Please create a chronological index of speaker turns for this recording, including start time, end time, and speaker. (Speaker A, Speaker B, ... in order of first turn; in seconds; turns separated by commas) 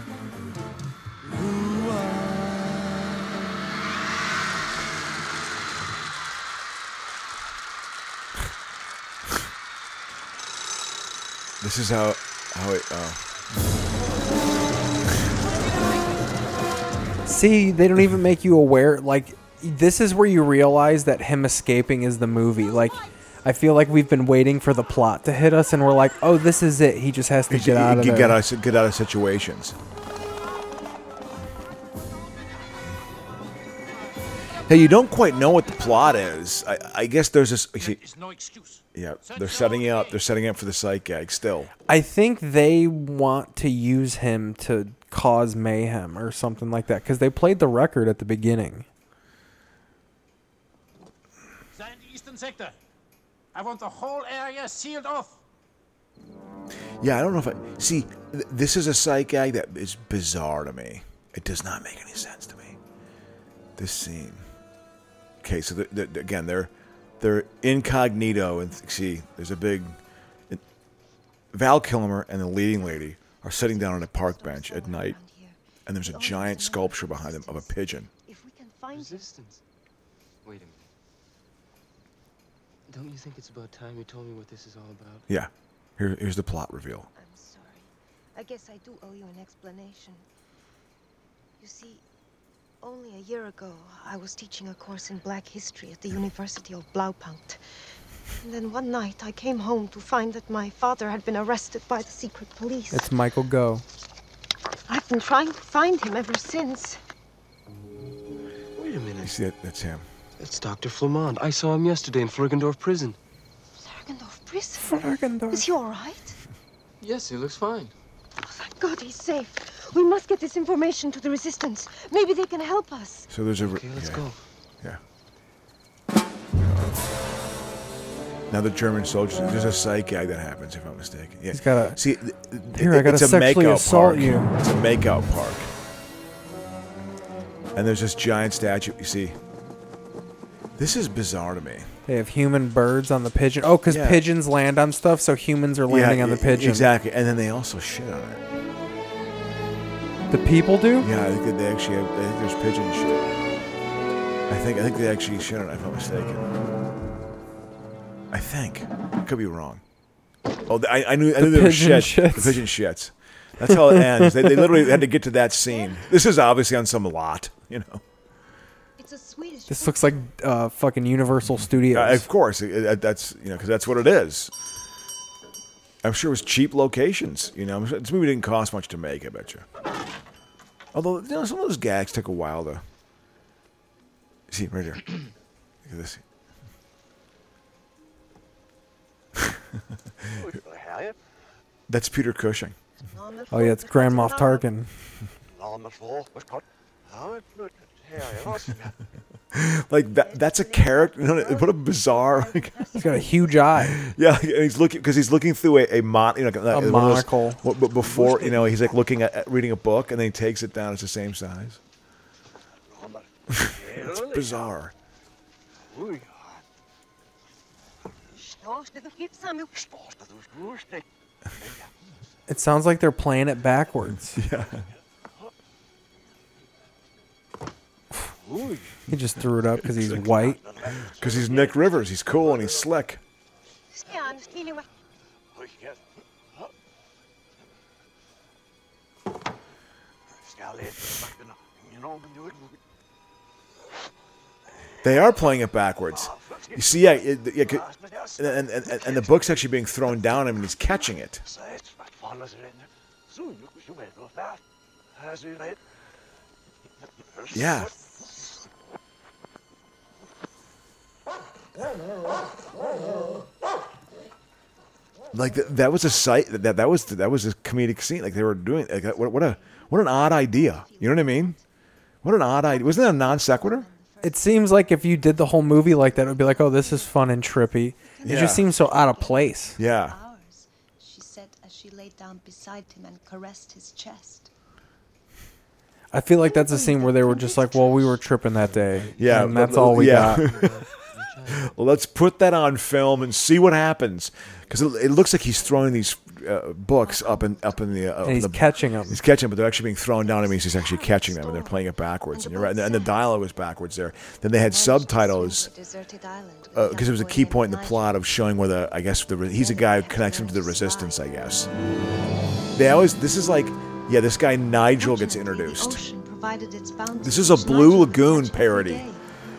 Speaker A: 1.2-3.1, Speaker B: 11.6-13.2, Speaker C: 17.2-28.4, Speaker B: 27.5-29.7, Speaker B: 34.7-38.0, Speaker D: 37.8-40.2, Speaker B: 38.9-41.7, Speaker C: 41.9-48.9, Speaker D: 51.7-52.8, Speaker D: 53.5-55.4, Speaker B: 57.0-62.8, Speaker B: 63.8-64.4, Speaker B: 65.4-70.0, Speaker B: 71.5-75.2, Speaker E: 73.8-79.2, Speaker B: 75.8-78.1, Speaker A: 78.9-79.6, Speaker A: 80.4-80.9, Speaker A: 82.9-85.2, Speaker B: 85.3-87.1, Speaker E: 87.1-90.2, Speaker E: 91.6-92.0, Speaker E: 92.8-97.6, Speaker E: 98.4-103.1, Speaker C: 102.9-103.8, Speaker E: 104.9-107.0, Speaker A: 108.8-109.4, Speaker B: 109.2-110.0, Speaker A: 110.4-113.2, Speaker E: 113.8-116.4, Speaker C: 114.8-115.7, Speaker A: 117.0-117.9, Speaker E: 118.4-123.3, Speaker B: 123.3-124.2, Speaker A: 123.6-124.4, Speaker B: 126.6-127.0, Speaker B: 128.5-135.7, Speaker C: 131.5-132.0, Speaker C: 132.7-134.5, Speaker B: 137.7-139.3, Speaker B: 140.8-141.9, Speaker C: 142.1-146.9, Speaker B: 143.9-144.2, Speaker B: 145.9-148.4, Speaker C: 150.3-151.1, Speaker B: 151.0-153.3, Speaker B: 154.5-156.5, Speaker B: 158.3-159.8, Speaker B: 160.7-168.0, Speaker C: 161.4-162.6, Speaker C: 163.7-164.6, Speaker E: 165.6-166.1, Speaker E: 169.0-170.3, Speaker C: 169.7-172.3, Speaker B: 171.9-174.5, Speaker B: 176.0-179.6, Speaker B: 180.9-182.8, Speaker B: 184.5-185.0, Speaker B: 185.8-186.2, Speaker B: 191.9-192.7, Speaker E: 193.1-194.7, Speaker C: 193.5-194.9, Speaker B: 199.5-202.8, Speaker E: 200.1-203.7, Speaker C: 202.9-204.0, Speaker B: 203.8-211.8, Speaker C: 206.7-207.6, Speaker B: 213.5-214.9, Speaker E: 218.3-219.8, Speaker C: 222.5-224.4, Speaker B: 224.3-224.9, Speaker C: 229.1-230.6, Speaker B: 229.8-230.2, Speaker B: 231.0-233.2, Speaker E: 233.9-234.9, Speaker B: 245.0-251.4, Speaker B: 257.5-257.9, Speaker B: 265.3-271.6, Speaker E: 269.0-271.6, Speaker B: 272.2-273.9, Speaker E: 272.6-284.5, Speaker C: 274.2-279.8, Speaker B: 278.2-278.7, Speaker B: 279.8-280.2, Speaker C: 286.1-290.5, Speaker E: 286.4-288.3, Speaker A: 288.5-291.7, Speaker B: 289.1-290.8, Speaker B: 291.6-305.7, Speaker E: 294.7-296.2, Speaker E: 296.9-298.3, Speaker C: 298.2-299.2, Speaker E: 300.2-303.2, Speaker E: 304.5-308.2, Speaker B: 306.7-311.7, Speaker E: 309.5-311.4, Speaker B: 312.7-316.0, Speaker E: 314.9-319.2, Speaker B: 317.2-319.0